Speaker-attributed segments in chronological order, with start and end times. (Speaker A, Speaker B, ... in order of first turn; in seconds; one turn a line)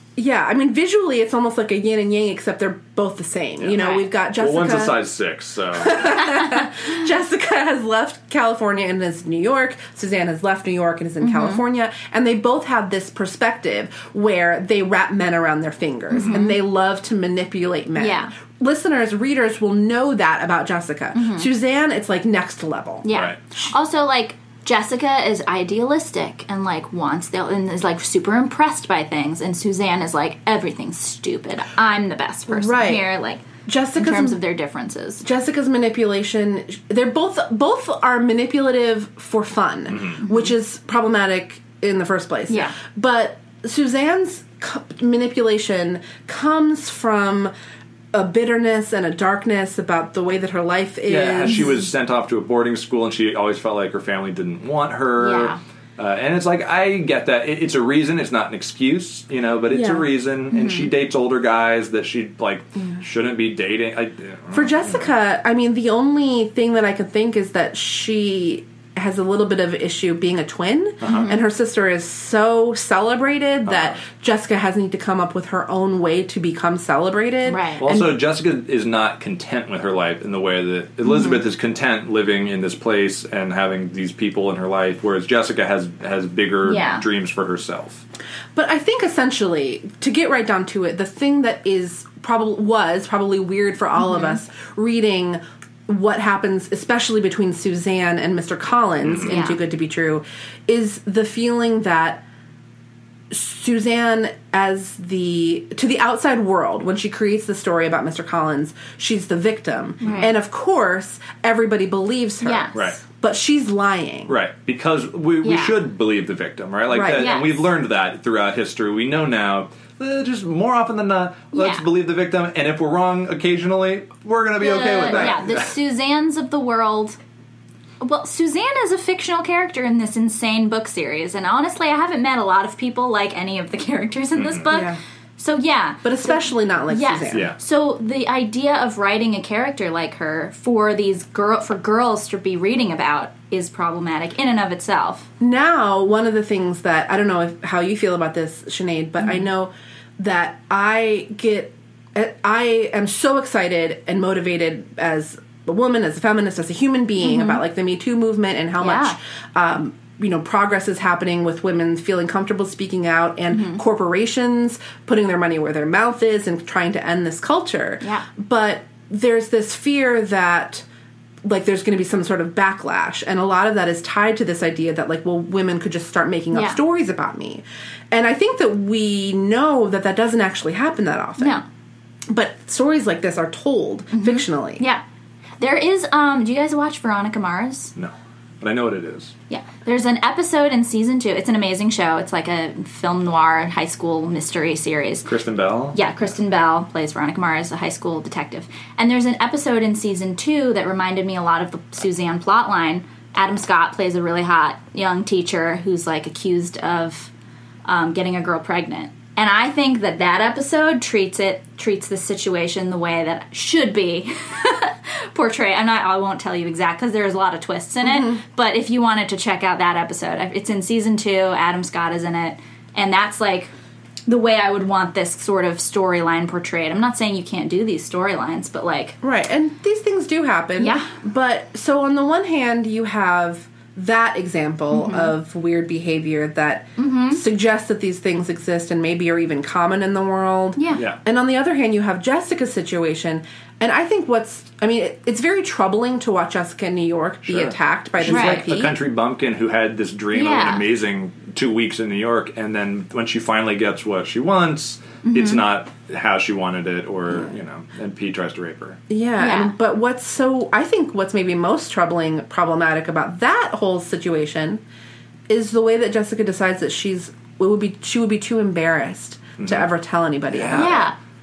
Speaker A: 0.2-5.1
Speaker B: 3.6-6.1
Speaker A: 5.8-23.1
Speaker C: 11.2-11.6
Speaker C: 16.1-16.6
Speaker C: 18.0-18.3
Speaker C: 21.1-21.5
Speaker C: 23.0-35.2
Speaker B: 23.1-23.4
Speaker A: 32.5-33.1
Speaker A: 33.7-34.4
Speaker A: 35.2-47.5
Speaker C: 40.2-40.5
Speaker C: 42.5-42.8
Speaker A: 48.1-51.9
Speaker B: 51.1-65.1
Speaker C: 51.5-51.7
Speaker C: 55.1-55.6
Speaker A: 59.7-60.1
Speaker C: 60.5-60.9
Speaker A: 64.5-78.2
Speaker B: 71.0-71.4
Speaker C: 71.0-71.4
Speaker B: 73.7-74.0
Speaker C: 77.5-77.8
Speaker B: 77.8-88.0
Speaker C: 86.6-87.1
Speaker A: 88.5-102.2
Speaker C: 94.0-94.4
Speaker B: 99.0-99.3
Speaker C: 99.2-99.6
Speaker A: 103.3-114.3
Speaker C: 110.0-110.3
Speaker C: 112.4-112.9
Speaker B: 112.7-113.0
Speaker B: 114.3-125.7
Speaker C: 115.4-115.8
Speaker A: 116.9-117.4
Speaker C: 117.1-117.7
Speaker C: 121.5-121.8
Speaker C: 124.6-127.2
Speaker C: 128.0-145.3
Speaker B: 134.3-134.8
Speaker A: 134.7-135.0
Speaker A: 136.0-137.5
Speaker B: 137.3-137.6
Speaker A: 145.4-170.8
Speaker C: 149.2-149.4
Speaker C: 157.2-157.6
Speaker C: 158.8-159.2
Speaker C: 163.5-163.8
Speaker C: 168.0-168.3
Speaker A: 171.4-181.6
Speaker C: 176.5-176.8
Speaker C: 181.4-181.7
Speaker A: 182.3-184.8
Speaker C: 184.1-185.0
Speaker C: 185.6-187.9
Speaker B: 188.0-189.3
Speaker C: 189.5-195.3
Speaker B: 195.2-196.0
Speaker C: 195.9-207.3
Speaker C: 207.9-223.7
Speaker A: 218.0-218.4
Speaker C: 224.3-229.2
Speaker A: 229.2-249.0
Speaker C: 230.8-231.1
Speaker C: 234.9-235.3
Speaker C: 237.0-237.4
Speaker C: 240.8-241.0
Speaker B: 247.4-259.0
Speaker C: 248.3-248.8
Speaker C: 250.3-250.8
Speaker C: 255.2-255.6
Speaker A: 259.1-264.8
Speaker C: 259.4-259.7
Speaker A: 265.5-271.1
Speaker B: 269.6-269.9
Speaker B: 270.5-271.1
Speaker C: 270.7-271.2